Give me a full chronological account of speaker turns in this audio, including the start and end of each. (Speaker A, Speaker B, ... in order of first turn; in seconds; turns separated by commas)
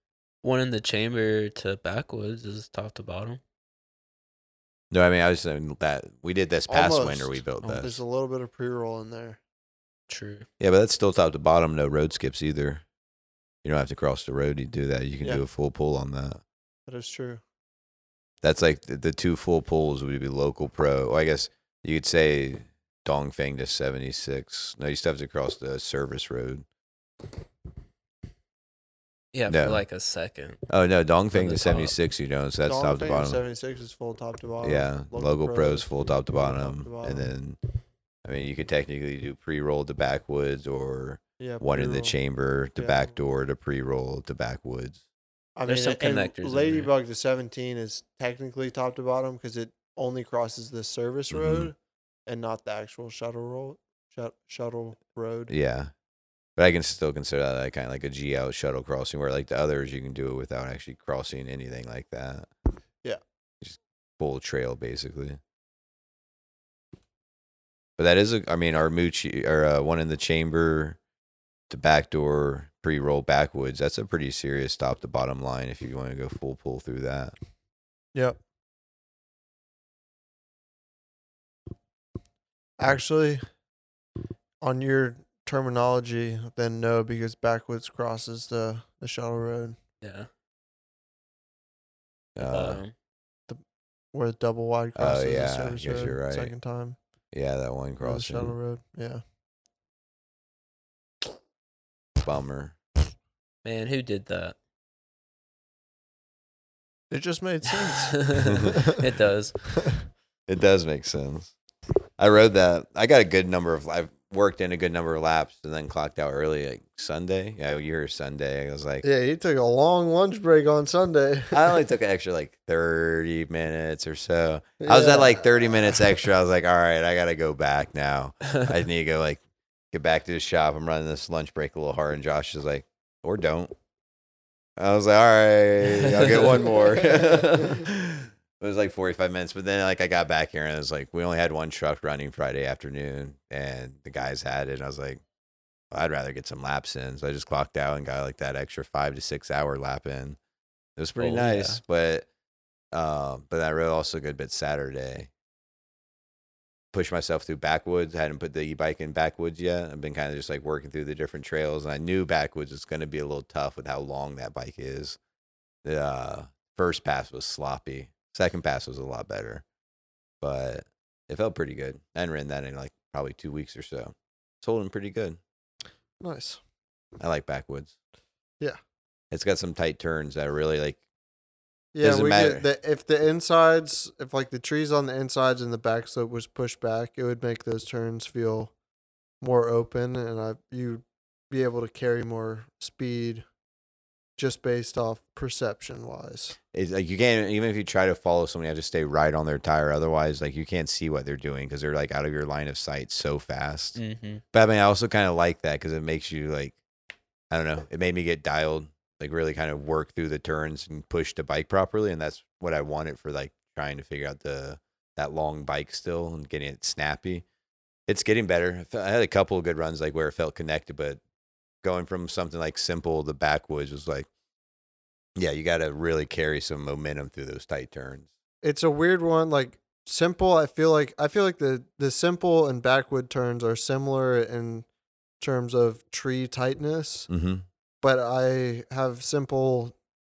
Speaker A: 0.4-3.4, Speaker B: 4.9-8.0, Speaker C: 6.7-9.4, Speaker A: 10.1-10.5, Speaker B: 10.6-12.8, Speaker B: 13.6-16.4, Speaker C: 16.9-17.4, Speaker B: 18.4-26.6, Speaker A: 29.3-30.6, Speaker B: 29.5-29.8, Speaker B: 30.7-33.4, Speaker A: 31.3-31.9, Speaker C: 32.6-37.3, Speaker B: 34.6-37.6, Speaker B: 38.2-45.0, Speaker C: 41.4-42.2, Speaker C: 42.8-43.2, Speaker C: 45.6-51.8, Speaker A: 45.7-46.9, Speaker B: 51.3-51.7, Speaker C: 52.3-55.5, Speaker B: 55.5-55.9, Speaker B: 56.6-62.5, Speaker B: 63.6-65.4, Speaker B: 68.0-71.0, Speaker B: 71.7-77.4, Speaker C: 82.8-83.4, Speaker C: 84.6-89.8, Speaker A: 90.0-90.3, Speaker B: 92.4-92.8, Speaker A: 92.4-92.9, Speaker C: 94.1-97.0, Speaker B: 95.0-96.5, Speaker B: 97.3-98.5, Speaker C: 98.0-99.2, Speaker B: 102.2-102.8, Speaker A: 103.6-104.6, Speaker C: 107.1-109.0, Speaker A: 108.1-109.6, Speaker B: 108.5-108.7, Speaker B: 110.5-111.5, Speaker B: 112.2-119.0, Speaker C: 119.0-121.8, Speaker B: 121.5-129.4, Speaker C: 124.8-126.0, Speaker B: 129.9-133.7, Speaker B: 134.8-145.2, Speaker A: 136.0-136.6, Speaker B: 145.9-150.4, Speaker B: 151.0-152.3, Speaker A: 151.2-151.8, Speaker B: 152.9-155.3, Speaker B: 156.9-165.2, Speaker B: 165.8-169.6, Speaker B: 170.4-175.4, Speaker C: 176.2-176.6, Speaker B: 177.2-178.0, Speaker B: 179.3-181.0, Speaker C: 181.9-188.7, Speaker B: 182.0-182.7, Speaker C: 189.4-193.4, Speaker C: 194.4-196.6, Speaker B: 196.7-204.0, Speaker A: 204.0-204.4, Speaker B: 204.5-206.8, Speaker B: 207.5-217.4, Speaker B: 218.1-221.2, Speaker B: 221.8-224.3, Speaker B: 225.4-228.3, Speaker C: 228.6-234.9, Speaker C: 235.4-237.3, Speaker B: 237.3-237.7, Speaker C: 238.0-239.9